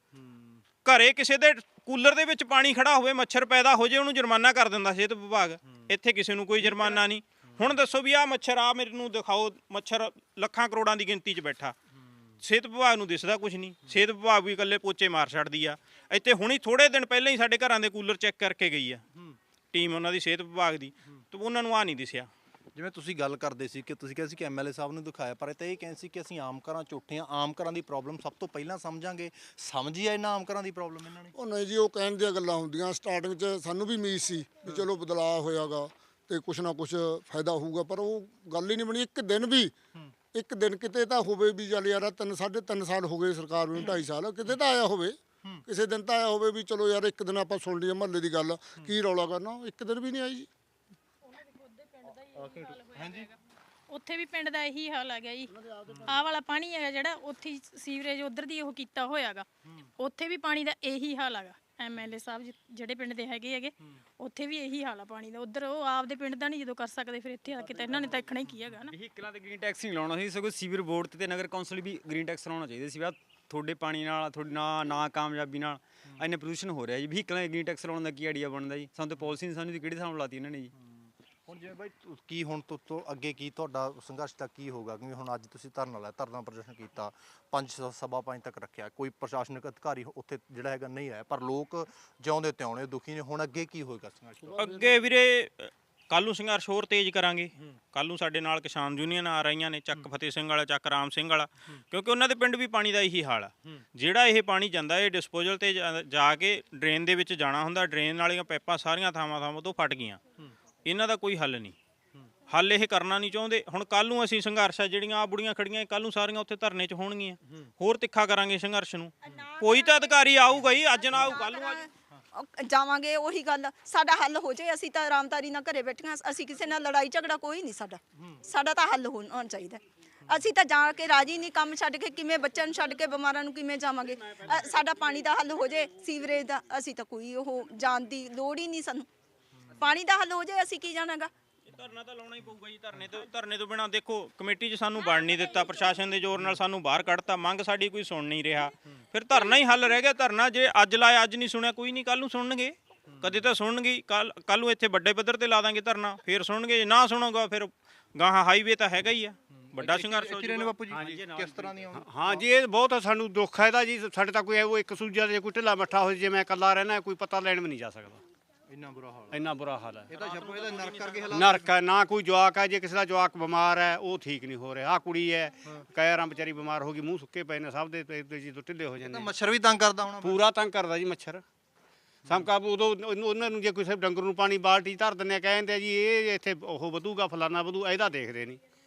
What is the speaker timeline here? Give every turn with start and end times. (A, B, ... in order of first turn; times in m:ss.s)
0:00.1-0:00.6 A
0:00.8-0:11.8 B
0:06.6-0:07.0 A
0:12.4-0:19.0 B
0:19.7-0:22.3 B
0:22.7-0:31.3 A
0:31.3-0:39.7 C
0:40.3-0:50.5 C
0:51.3-0:53.3 D
0:52.3-0:53.3 A
0:53.9-0:55.5 D
0:55.5-0:56.1 C
0:55.9-0:56.1 A
0:56.0-0:59.4 D
1:00.0-1:08.9 D
1:08.9-1:20.7 E
1:20.8-1:34.6 A
1:34.5-1:34.8 C
1:34.6-1:50.2 B
1:50.8-1:51.8 B
1:52.5-2:01.9 B
1:59.3-2:00.1 F
2:01.1-2:19.1 F
2:19.8-2:21.3 F
2:21.7-2:40.8 B
2:39.5-2:42.5 A
2:40.9-2:48.2 G
2:48.7-2:49.4 A
2:49.3-2:50.1 G
2:50.1-2:51.7 A
2:50.1-2:51.3 B
2:51.3-2:59.3 G
2:59.0-3:00.4 A
3:00.2-3:01.4 G
3:02.2-3:08.6 G